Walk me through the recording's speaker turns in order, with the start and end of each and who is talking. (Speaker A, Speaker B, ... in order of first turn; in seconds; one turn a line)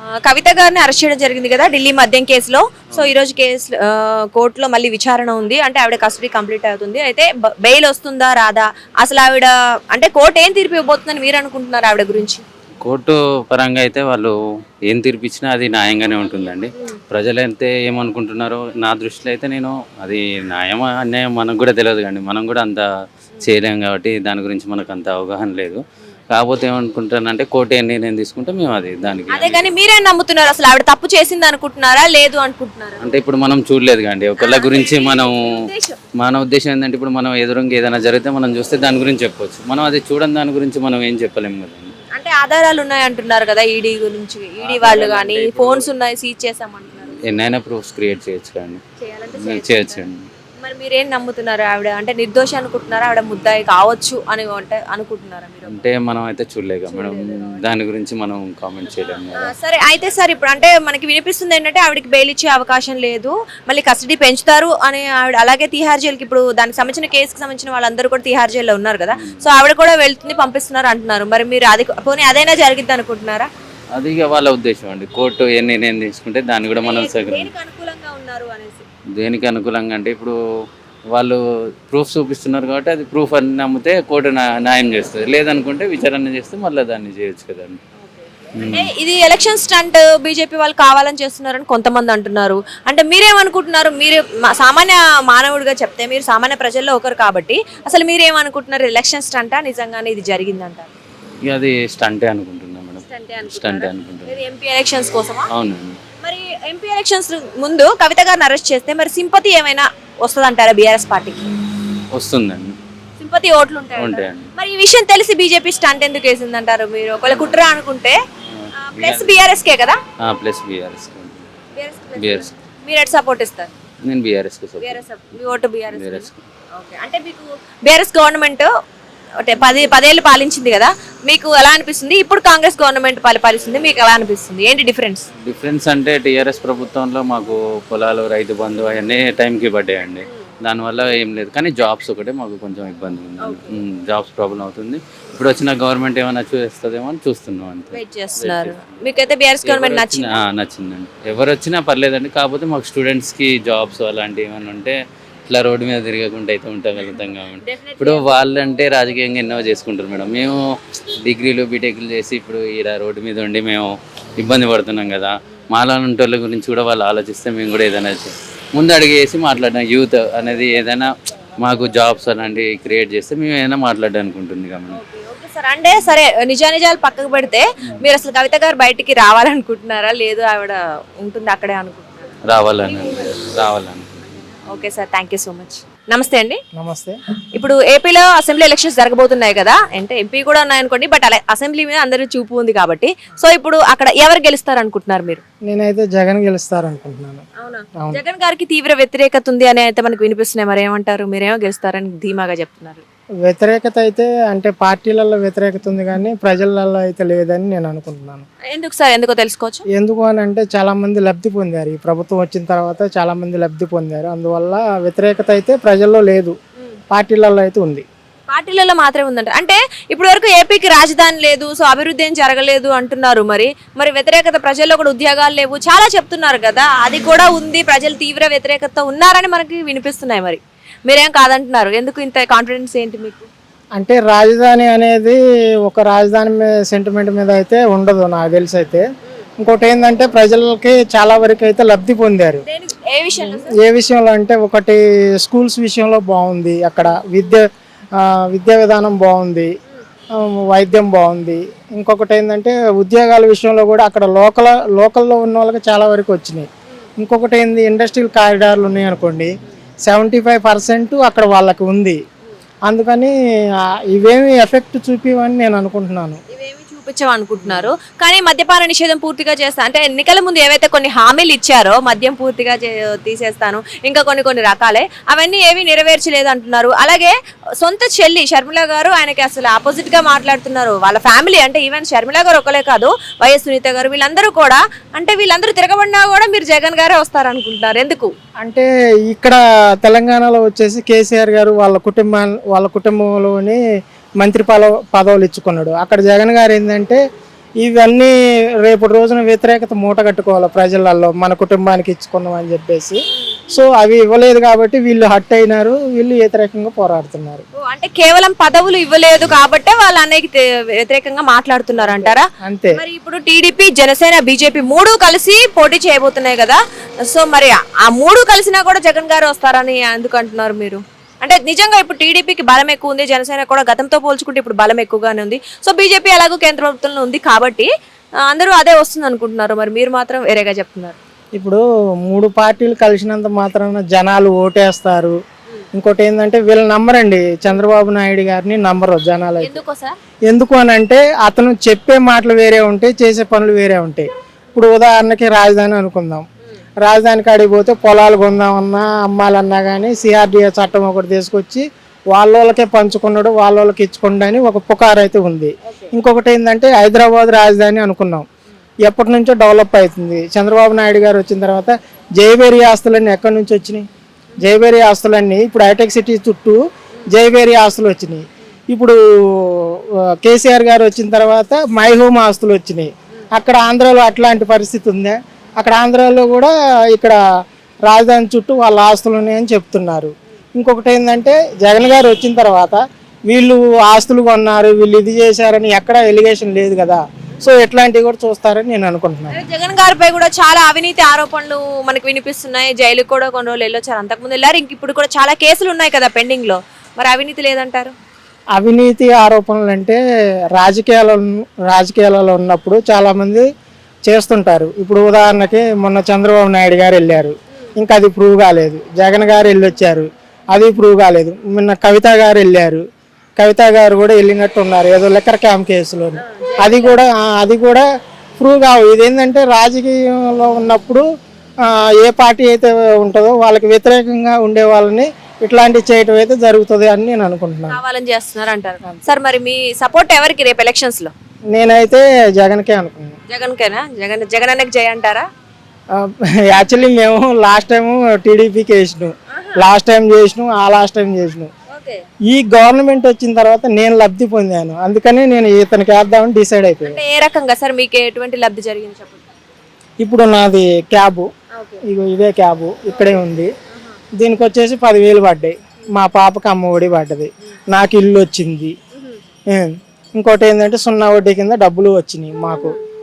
Speaker A: 0.2-12.4
Speaker B: 12.8-14.3
Speaker B: 14.9-22.9
Speaker B: 23.4-29.7
Speaker A: 29.3-33.2
Speaker B: 33.0-35.5
Speaker A: 34.4-36.0
Speaker B: 36.2-41.9
Speaker A: 42.1-47.2
Speaker B: 44.6-45.9
Speaker B: 47.2-48.8
Speaker A: 49.0-50.1
Speaker B: 49.4-50.2
Speaker A: 50.6-55.9
Speaker B: 55.7-59.5
Speaker A: 56.9-57.6
Speaker A: 59.4-73.5
Speaker B: 69.1-69.5
Speaker B: 74.0-77.5
Speaker A: 76.8-78.8
Speaker B: 79.2-80.4
Speaker B: 81.1-87.8
Speaker A: 88.0-100.9
Speaker B: 88.6-88.9
Speaker B: 101.4-104.4
Speaker A: 103.0-105.5
Speaker B: 105.5-106.0
Speaker A: 106.2-111.5
Speaker B: 112.1-112.7
Speaker A: 113.2-118.2
Speaker B: 114.0-114.5
Speaker B: 117.3-117.6
Speaker B: 118.5-119.3
Speaker A: 118.8-120.0
Speaker B: 120.2-121.4
Speaker A: 121.8-123.7
Speaker B: 122.2-122.5
Speaker B: 124.0-126.4
Speaker A: 124.8-128.7
Speaker A: 129.4-135.3
Speaker B: 135.4-148.9
Speaker A: 143.4-143.8
Speaker A: 147.9-150.4
Speaker B: 149.6-155.0
Speaker B: 155.5-160.6
Speaker A: 157.6-158.4
Speaker B: 161.2-175.0
Speaker A: 174.9-182.4
Speaker B: 182.5-184.5
Speaker A: 184.6-186.6
Speaker C: 186.8-187.2
Speaker A: 187.6-195.4
Speaker C: 195.7-197.4
Speaker A: 197.6-203.0
Speaker C: 203.4-208.5
Speaker A: 208.7-209.8
Speaker C: 209.9-216.6
Speaker C: 217.1-218.0
Speaker A: 218.5-233.5
Speaker C: 234.0-239.0
Speaker C: 239.6-242.6
Speaker A: 242.7-243.8
Speaker C: 243.4-247.7
Speaker C: 248.2-249.7
Speaker C: 250.3-256.7
Speaker C: 257.2-259.5
Speaker C: 260.1-262.2
Speaker C: 262.9-266.4
Speaker A: 266.5-288.3
Speaker C: 267.6-267.9
Speaker C: 288.6-293.8
Speaker C: 294.4-297.2
Speaker C: 297.8-303.2
Speaker C: 303.7-307.6
Speaker A: 307.8-327.9
Speaker C: 312.0-313.0
Speaker A: 328.4-331.2
Speaker C: 331.6-335.4
Speaker C: 335.9-339.8
Speaker A: 339.6-340.1
Speaker C: 340.5-346.4
Speaker C: 347.0-358.4
Speaker A: 355.9-356.1
Speaker C: 359.0-364.1
Speaker C: 364.6-377.4
Speaker C: 378.1-389.6
Speaker A: 389.5-398.1
Speaker C: 398.8-400.2
Speaker C: 400.7-403.7
Speaker C: 404.3-413.0
Speaker C: 413.6-418.0
Speaker A: 416.4-417.2
Speaker C: 418.6-421.3
Speaker C: 421.8-428.0
Speaker A: 427.9-431.3
Speaker C: 429.1-429.3
Speaker C: 431.7-433.4
Speaker A: 433.5-435.5
Speaker C: 436.1-441.7
Speaker A: 439.5-439.9
Speaker A: 441.9-442.2
Speaker C: 442.5-447.2
Speaker A: 447.0-449.5
Speaker C: 450.2-451.5
Speaker A: 451.7-452.0
Speaker C: 452.0-453.7
Speaker A: 453.1-454.2
Speaker C: 454.4-458.9
Speaker A: 459.1-459.4
Speaker C: 459.7-463.0
Speaker A: 462.7-463.0